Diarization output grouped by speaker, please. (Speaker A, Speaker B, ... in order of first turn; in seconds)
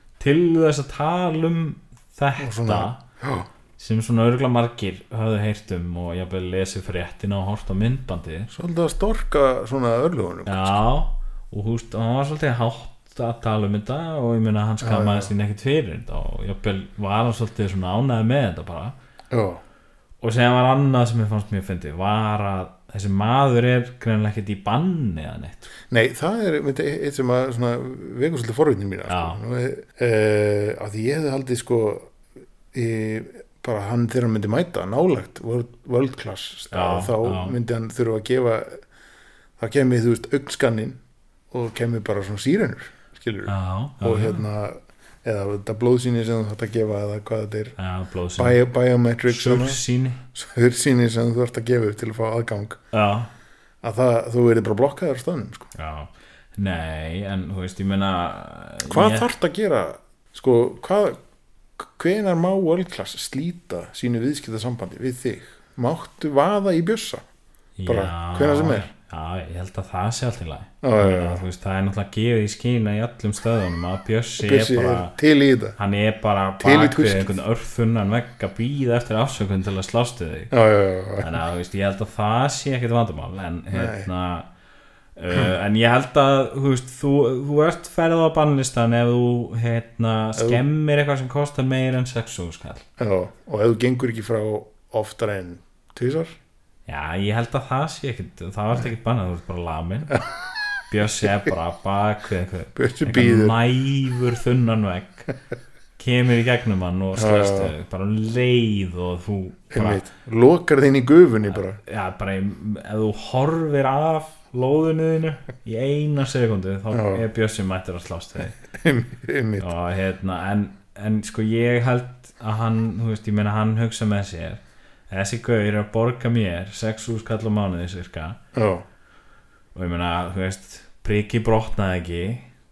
Speaker A: 0.2-3.0, 3.8-8.5, 10.4-18.9, 20.2-25.7, 29.1-29.4, 36.7-37.5, 43.5-44.4, 47.8-48.6, 49.3-50.2, 52.9-53.3, 55.7-59.3, 67.8-75.2, 75.8-80.5, 81.2-84.5, 85.2-92.8, 96.9-100.2, 100.9-105.3, 106.0-110.0, 111.5-118.5, 119.6-128.4, 129.7-132.5
Speaker B: 2.4-3.5, 8.5-10.8, 14.8-15.3, 19.3-19.6, 25.9-32.1, 32.7-38.8, 39.6-41.0, 41.5-47.8, 48.4-49.8, 50.3-52.8, 53.8-55.7, 58.9-61.2, 61.8-67.2, 67.8-68.9, 70.8-71.4, 74.4-75.8, 76.6-77.3, 80.5-81.4, 83.7-84.1, 90.3-90.6, 93.0-96.4, 102.7-103.6, 107.1-107.7, 109.7-111.8, 116.9-117.2, 118.5-119.7, 128.5-128.8